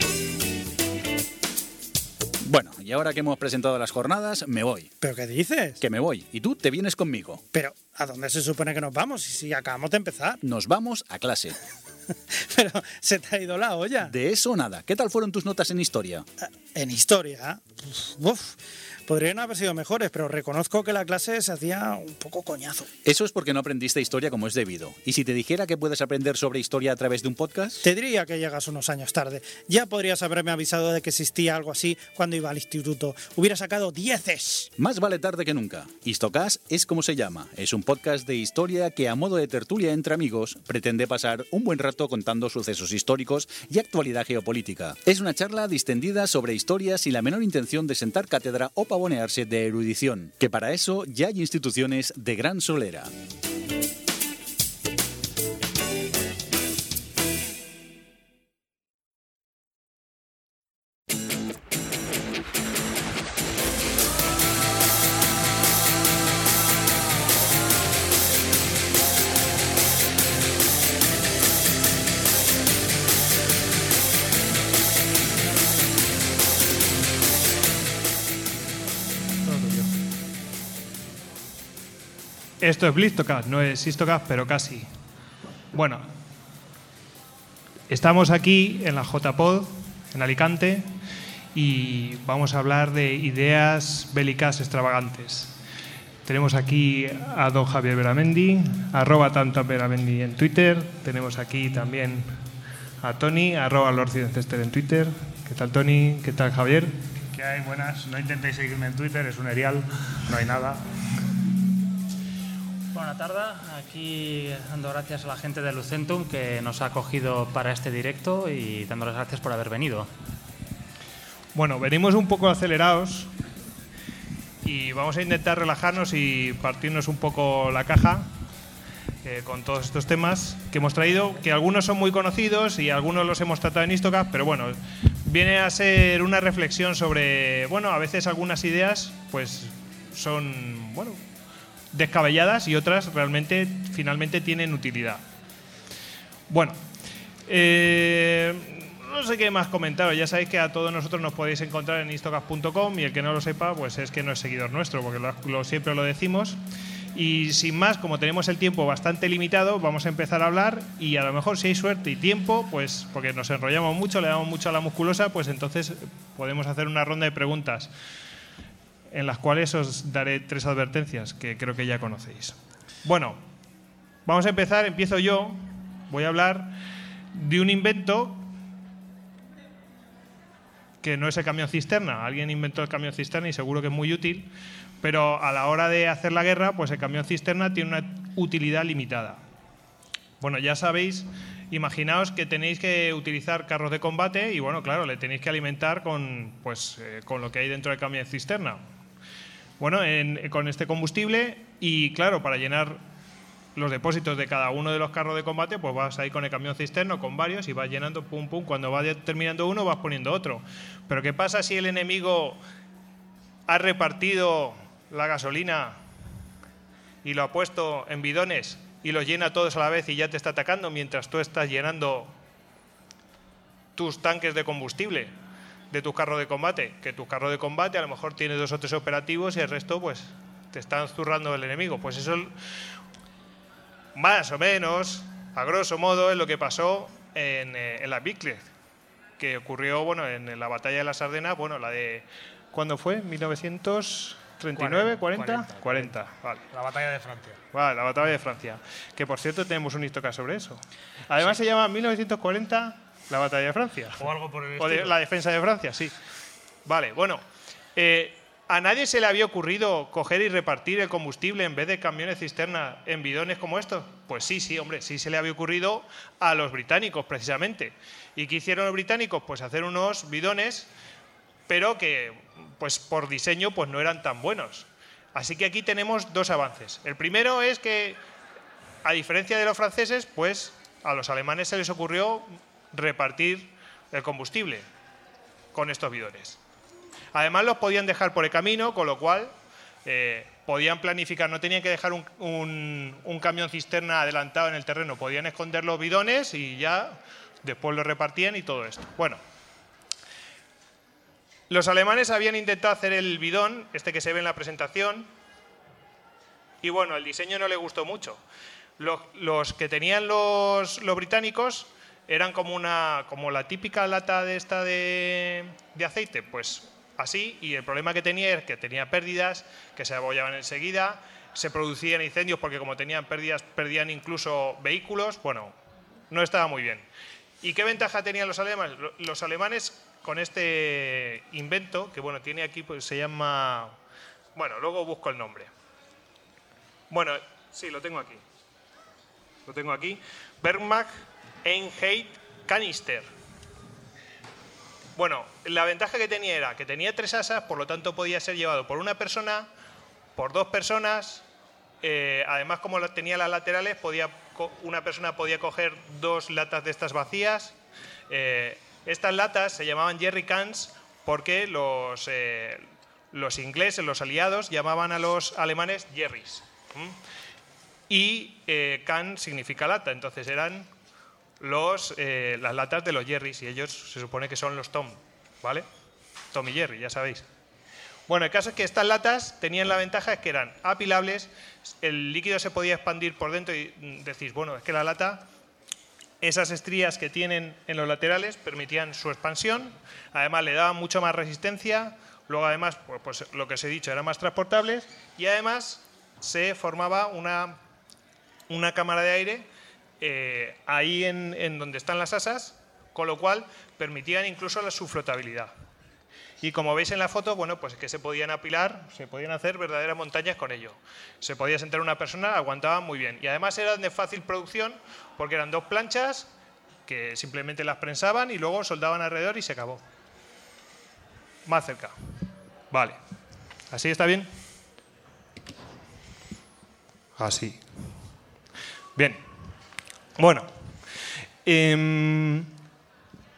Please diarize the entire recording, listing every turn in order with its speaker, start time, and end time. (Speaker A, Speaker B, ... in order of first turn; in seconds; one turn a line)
Speaker A: 2.4-4.9
Speaker B: 5.0-5.8
Speaker A: 5.8-7.4
Speaker B: 7.5-10.4
Speaker A: 10.4-11.6
Speaker B: 12.3-14.1
Speaker A: 14.0-16.3
Speaker B: 16.4-22.9
Speaker A: 23.0-27.9
Speaker B: 27.8-34.7
Speaker A: 34.8-53.1
Speaker C: 79.4-79.9
Speaker C: 82.6-84.9
Speaker C: 85.7-86.0
Speaker C: 87.9-90.9
Speaker C: 91.5-95.5
Speaker C: 96.2-102.3
Speaker C: 103.0-106.9
Speaker D: 107.3-110.8
Speaker E: 112.9-120.1
Speaker C: 121.5-123.3
Speaker C: 124.6-128.3
Speaker C: 129.2-141.2
Speaker C: 141.9-145.2
Speaker C: 146.5-146.8
Speaker C: 147.4-156.6
Speaker C: 157.1-167.9
Speaker C: 169.1-173.4
Speaker C: 174.2-176.7
Speaker C: 177.3-178.4
Speaker C: 181.0-184.5
Speaker C: 185.0-189.4
Speaker C: 190.4-198.8
Speaker C: 199.8-203.0
Speaker C: 203.8-212.6
Speaker C: 213.7-216.0
Speaker C: 217.2-222.3
Speaker C: 223.9-225.3
Speaker C: 225.9-232.5
Speaker C: 234.1-238.7
Speaker C: 239.4-246.6
Speaker D: 244.8-246.1
Speaker D: 246.7-247.6
Speaker C: 247.7-254.2
Speaker D: 254.2-255.2
Speaker C: 254.8-256.1
Speaker C: 256.9-257.4
Speaker C: 257.9-270.9
Speaker C: 271.7-278.2
Speaker C: 279.0-284.8
Speaker C: 285.7-286.6
Speaker C: 287.3-289.5
Speaker C: 290.0-299.4
Speaker C: 301.7-305.3
Speaker C: 306.8-308.4
Speaker C: 309.0-325.7
Speaker C: 326.3-327.1
Speaker C: 327.6-333.9
Speaker C: 334.5-335.7
Speaker C: 337.1-338.4
Speaker C: 339.6-341.1
Speaker C: 341.6-343.3
Speaker C: 345.2-349.7
Speaker C: 350.4-351.4
Speaker C: 352.0-357.8
Speaker C: 358.3-367.2
Speaker C: 368.1-370.9
Speaker C: 371.6-375.9
Speaker C: 376.5-377.5
Speaker C: 378.3-385.4
Speaker C: 386.4-397.8
Speaker C: 398.7-399.6
Speaker C: 400.2-405.7
Speaker C: 406.6-416.5
Speaker C: 417.1-420.0
Speaker C: 421.6-422.1
Speaker C: 422.9-423.2
Speaker C: 423.9-424.5
Speaker C: 427.4-427.8
Speaker C: 429.1-429.4
Speaker C: 430.4-430.7
Speaker C: 431.6-432.7